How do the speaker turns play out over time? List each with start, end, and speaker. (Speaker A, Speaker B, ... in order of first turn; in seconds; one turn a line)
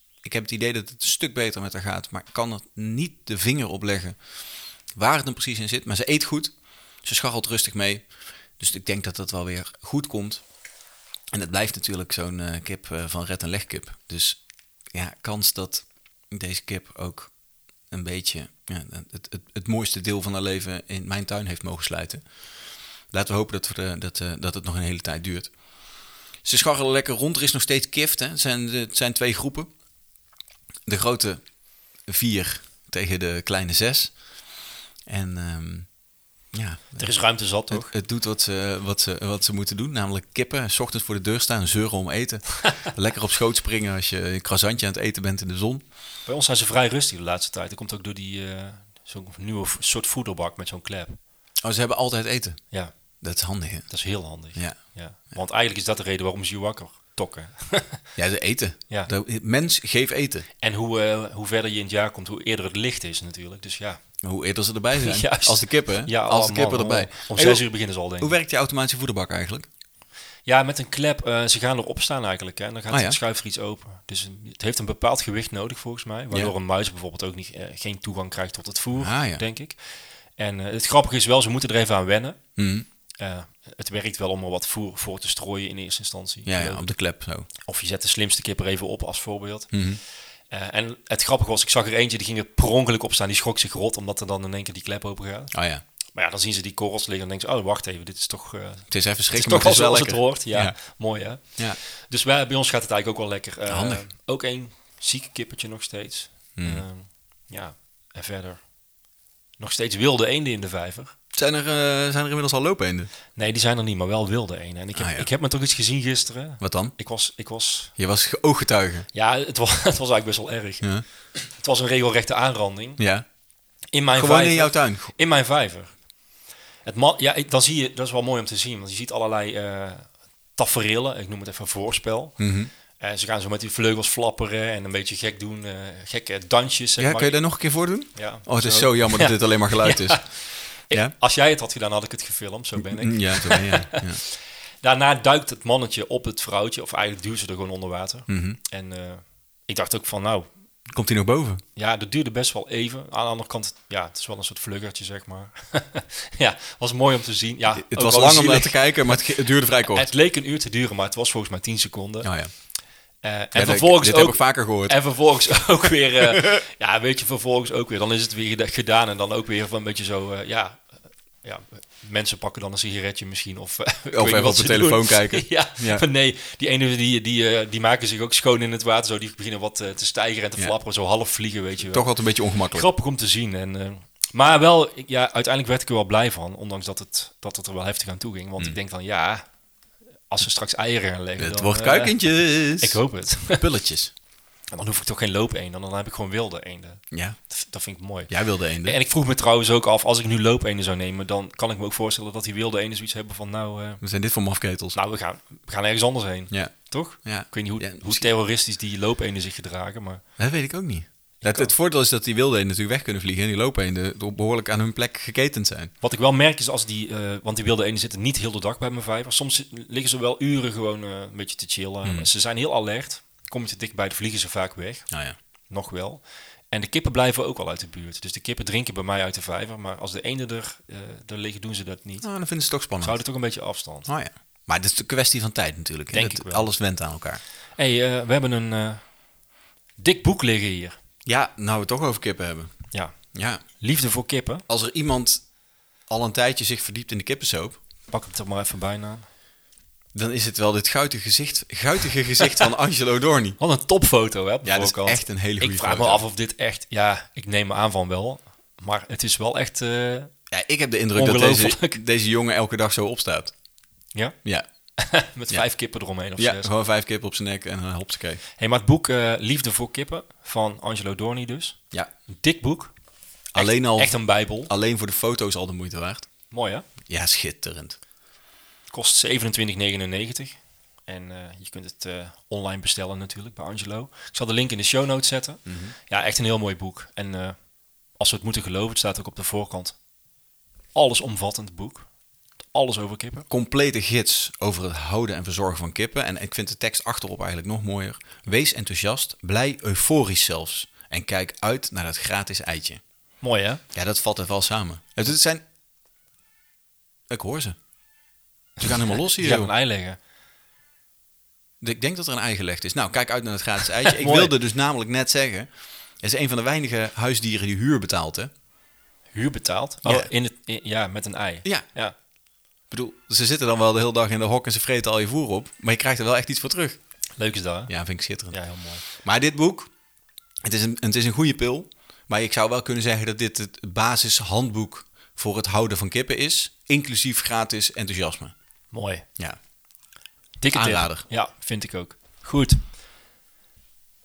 Speaker A: 0.2-4.2
Speaker A: 4.9-10.4
Speaker A: 11.3-14.4
Speaker A: 14.9-17.3
Speaker A: 17.9-22.3
Speaker A: 23.1-25.5
Speaker A: 26.4-29.7
Speaker A: 30.9-34.4
Speaker A: 35.0-36.0
Speaker A: 36.5-45.8
Speaker B: 37.0-37.9
Speaker B: 46.2-51.2
Speaker A: 51.6-54.8
Speaker B: 52.7-53.2
Speaker B: 53.9-58.0
Speaker A: 58.1-60.5
Speaker B: 60.6-64.0
Speaker A: 64.2-69.7
Speaker B: 65.0-68.4
Speaker B: 70.5-82.5
Speaker A: 72.9-73.2
Speaker A: 79.0-79.4
Speaker A: 82.5-82.8
Speaker B: 83.2-86.9
Speaker A: 86.5-87.5
Speaker B: 87.5-95.5
Speaker A: 89.7-90.0
Speaker A: 95.5-95.8
Speaker B: 96.1-108.8
Speaker A: 98.9-101.8
Speaker A: 103.7-104.0
Speaker A: 106.5-106.8
Speaker B: 109.6-111.1
Speaker A: 111.3-113.1
Speaker B: 113.3-117.9
Speaker A: 115.0-115.3
Speaker A: 116.6-117.0
Speaker A: 118.0-119.1
Speaker B: 119.1-123.0
Speaker A: 123.0-123.3
Speaker B: 123.9-126.1
Speaker A: 124.1-125.1
Speaker B: 126.8-137.4
Speaker A: 132.4-132.7
Speaker A: 137.0-141.1
Speaker B: 138.1-150.5
Speaker A: 142.8-144.2
Speaker A: 148.3-148.6
Speaker A: 150.9-151.6
Speaker B: 151.8-159.3
Speaker A: 157.7-160.1
Speaker B: 159.8-162.6
Speaker A: 162.2-162.5
Speaker B: 163.2-189.5
Speaker A: 163.5-165.0
Speaker A: 166.2-166.6
Speaker A: 174.1-176.0
Speaker A: 181.9-182.8
Speaker B: 190.3-193.6
Speaker A: 191.4-194.1
Speaker B: 194.7-204.0
Speaker A: 197.1-197.4
Speaker A: 198.3-199.0
Speaker A: 204.0-204.9
Speaker B: 204.9-210.2
Speaker A: 206.5-208.3
Speaker A: 210.4-215.9
Speaker B: 211.4-211.7
Speaker B: 216.0-232.3
Speaker A: 222.0-222.3
Speaker A: 225.1-225.3
Speaker A: 232.2-233.3
Speaker B: 233.0-234.1
Speaker A: 234.0-237.4
Speaker B: 236.1-236.7
Speaker B: 237.8-239.2
Speaker B: 240.0-240.9
Speaker A: 241.2-243.6
Speaker B: 242.9-244.7
Speaker A: 244.7-247.8
Speaker B: 248.1-249.3
Speaker A: 250.1-253.6
Speaker B: 253.6-260.3
Speaker A: 254.6-256.2
Speaker A: 260.5-263.5
Speaker B: 261.1-262.0
Speaker B: 265.0-266.7
Speaker A: 266.4-268.4
Speaker B: 268.6-272.9
Speaker A: 273.5-276.3
Speaker B: 273.5-274.7
Speaker B: 276.5-276.9
Speaker A: 277.0-278.0
Speaker B: 278.9-290.0
Speaker A: 285.6-285.9
Speaker B: 290.9-293.5
Speaker A: 293.5-303.0
Speaker B: 303.4-303.8
Speaker A: 303.9-305.6
Speaker A: 307.3-307.8
Speaker A: 308.8-309.7
Speaker B: 309.4-310.2
Speaker A: 311.8-318.5
Speaker B: 314.1-314.5
Speaker B: 319.3-322.1
Speaker A: 322.9-327.0
Speaker B: 327.4-327.9
Speaker A: 327.9-329.9
Speaker B: 328.5-329.0
Speaker A: 330.6-338.5
Speaker B: 338.9-339.2
Speaker B: 340.6-342.8
Speaker A: 340.7-341.2